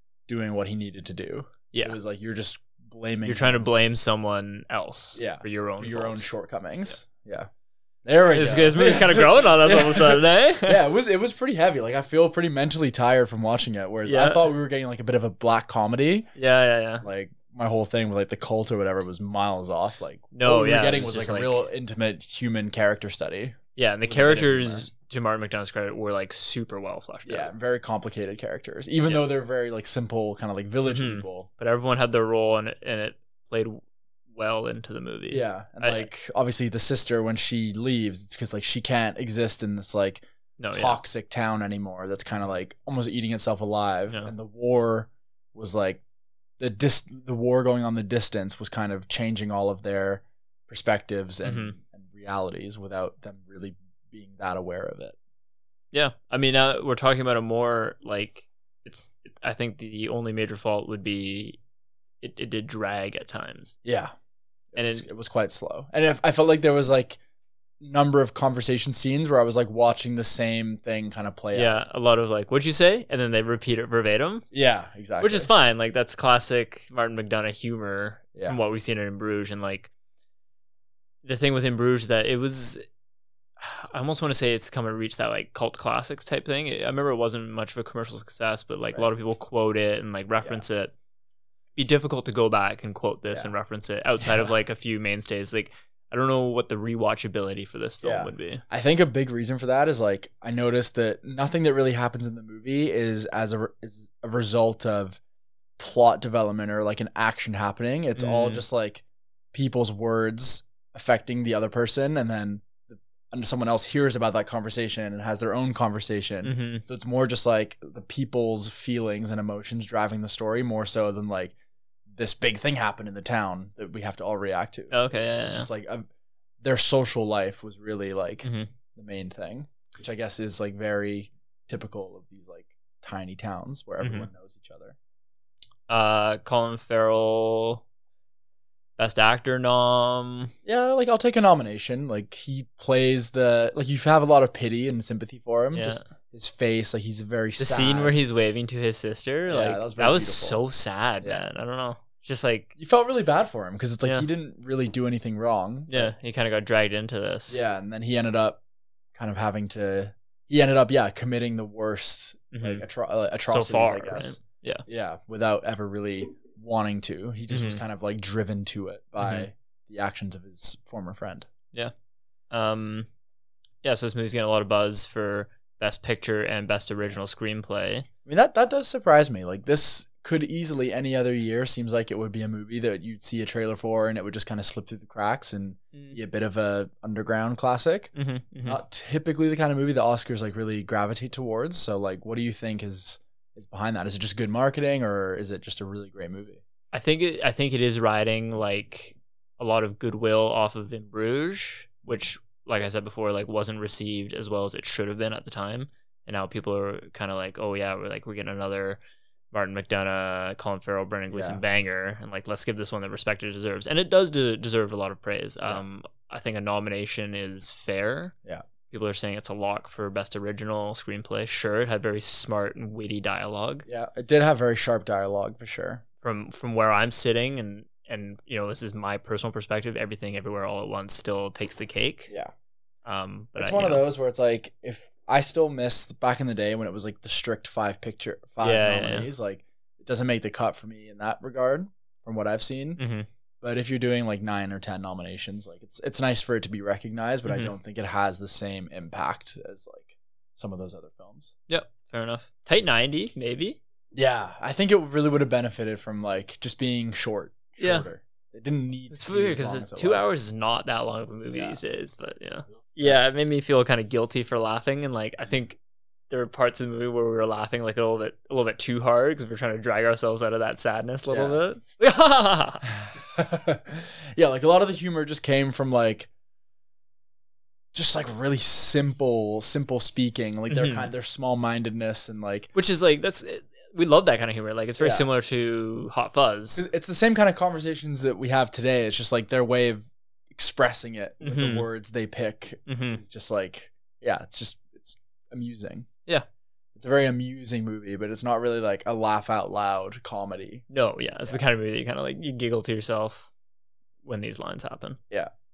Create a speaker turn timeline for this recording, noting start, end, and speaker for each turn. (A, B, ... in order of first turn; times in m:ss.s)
0:00.3-0:03.7 A
0:01.7-0:02.0 B
0:03.2-0:06.2 B
0:05.1-0:07.5 A
0:08.0-0:16.3 A
0:08.3-0:10.8 B
0:14.0-0:14.5 B
0:16.4-0:17.0 B
0:17.0-0:24.9 A
0:20.3-0:21.6 B
0:23.8-0:27.5 B
0:27.2-0:31.5 A
0:29.0-0:29.3 B
0:30.8-0:36.1 B
0:35.3-0:46.0 A
0:40.6-0:41.0 B
0:46.6-0:55.2 A
0:51.4-0:51.8 B
0:55.9-1:01.6 B
1:02.2-1:03.8 B
1:03.8-1:04.1 A
1:04.7-1:07.2 A
1:04.8-1:05.0 B
1:07.8-1:11.8 A
1:11.5-1:14.4 B
1:14.5-1:15.5 A
1:15.2-1:19.9 B
1:21.2-1:22.8 B
1:23.6-1:30.9 B
1:31.8-1:38.6 B
1:38.0-1:45.2 A
1:45.8-2:01.5 A
1:48.2-1:48.6 B
1:56.4-1:56.8 B
2:02.1-2:06.0 A
2:04.9-2:05.7 B
2:06.6-2:15.0 A
2:08.4-2:08.7 B
2:14.0-2:14.3 B
2:15.9-2:17.8 B
2:19.0-2:20.5 B
2:20.6-2:28.2 A
2:25.7-2:26.1 B
2:27.6-2:32.7 B
2:29.5-2:30.6 A
2:32.8-2:36.1 A
2:35.9-2:37.6 B
2:37.5-2:38.6 A
2:39.1-2:51.5 A
2:42.5-2:42.8 B
2:43.5-2:44.8 B
2:47.5-2:47.8 B
2:49.2-2:49.5 B
2:52.5-2:53.1 B
2:53.8-2:58.1 B
2:58.2-3:08.1 A
3:05.9-3:06.2 B
3:08.1-3:08.8 B
3:08.6-3:16.6 A
3:16.9-3:29.0 B
3:29.5-3:38.3 B
3:31.3-3:31.6 A
3:38.9-3:43.8 B
3:43.9-3:46.0 A
3:46.2-3:52.3 B
3:53.0-3:54.1 B
3:53.6-4:03.0 A
3:58.6-3:59.3 B
4:03.0-4:03.3 B
4:03.6-4:11.5 A
4:07.4-4:07.7 B
4:11.7-4:13.8 B
4:14.1-4:20.3 A
4:17.8-4:18.1 B
4:19.1-4:25.8 B
4:21.5-4:21.8 A
4:26.3-4:32.9 B
4:31.3-4:31.6 A
4:33.0-4:36.3 A
4:37.9-4:42.7 A
4:40.7-4:41.1 B
4:42.7-4:46.8 B
4:45.0-4:45.3 A
4:46.7-4:56.1 A
4:51.4-4:51.9 B
4:52.9-4:53.2 B
4:56.9-5:00.8 A
5:00.9-5:03.5 B
5:04.2-5:05.2 B